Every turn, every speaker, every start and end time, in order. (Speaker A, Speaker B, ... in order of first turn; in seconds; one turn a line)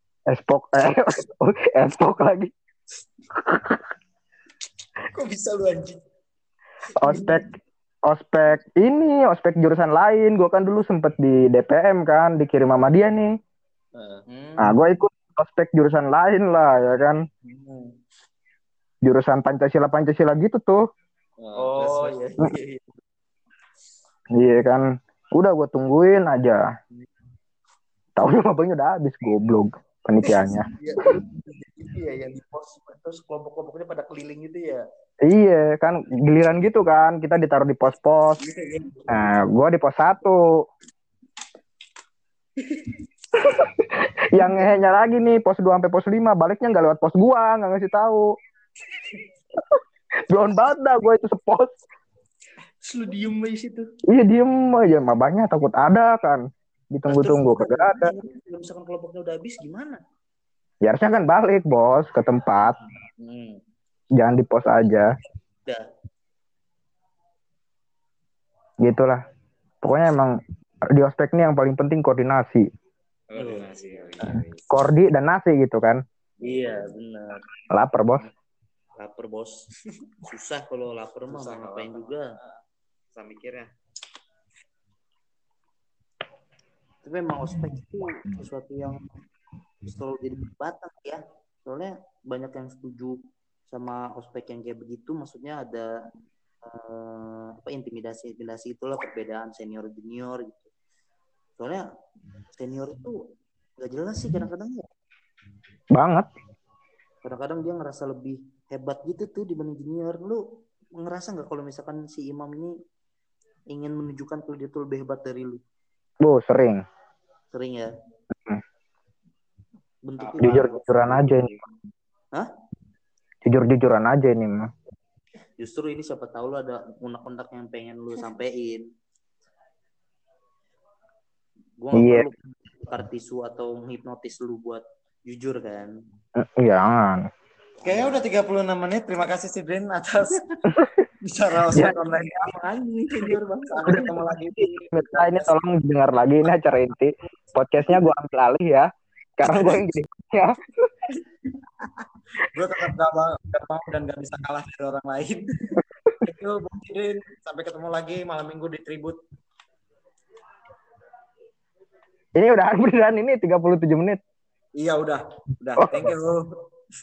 Speaker A: 0.3-2.5
Speaker A: 3.3-3.9
Speaker B: 5.1-6.0
Speaker A: 7.0-7.4
Speaker B: 7.1-7.3
Speaker A: 8.1-13.3
Speaker B: 13.9-14.2
Speaker C: 14.3-14.7
Speaker A: 14.6-17.2
Speaker C: 17.4-18.0
Speaker A: 19.0-20.8
Speaker B: 21.4-22.2
Speaker C: 21.6-23.0
Speaker A: 24.3-26.6
Speaker A: 28.2-30.7
Speaker C: 30.7-34.8
Speaker A: 35.2-38.4
Speaker C: 38.4-39.1
Speaker A: 39.1-40.5
Speaker A: 43.4-48.3
Speaker A: 49.6-51.8
Speaker C: 52.8-53.9
Speaker A: 54.1-58.1
Speaker C: 57.1-60.0
Speaker A: 60.8-62.8
Speaker C: 63.2-63.6
Speaker A: 64.2-65.1
Speaker A: 68.8-69.2
Speaker A: 69.8-70.4
Speaker A: 70.9-72.7
Speaker B: 73.3-74.6
Speaker C: 73.4-74.1
Speaker A: 74.3-76.0
Speaker B: 76.4-76.8
Speaker C: 76.4-77.4
Speaker A: 77.7-78.2
Speaker C: 79.0-79.6
Speaker C: 80.2-82.2
Speaker B: 81.3-82.6
Speaker B: 83.2-83.7
Speaker C: 87.0-89.0
Speaker C: 89.8-95.9
Speaker C: 96.6-100.7
Speaker C: 101.6-101.8
Speaker C: 102.6-103.2
Speaker C: 103.8-104.9
Speaker A: 105.9-106.3
Speaker C: 107.2-110.4
Speaker C: 111.0-112.7
Speaker C: 113.7-115.6
Speaker A: 116.2-116.8
Speaker C: 117.5-117.9
Speaker A: 118.3-118.6
Speaker C: 120.0-121.5
Speaker B: 120.2-121.5
Speaker A: 120.4-121.5
Speaker A: 123.4-124.7
Speaker C: 125.6-128.8
Speaker C: 131.8-135.9
Speaker A: 131.9-132.3
Speaker A: 136.4-137.2
Speaker B: 137.8-140.4
Speaker C: 137.8-138.2
Speaker A: 140.7-141.1
Speaker B: 141.2-142.4
Speaker C: 141.7-144.1
Speaker A: 141.7-142.0
Speaker B: 143.2-145.5
Speaker A: 143.8-150.9
Speaker B: 149.4-149.9
Speaker B: 151.8-159.2
Speaker A: 162.4-164.2
Speaker B: 164.8-166.5
Speaker A: 165.8-166.1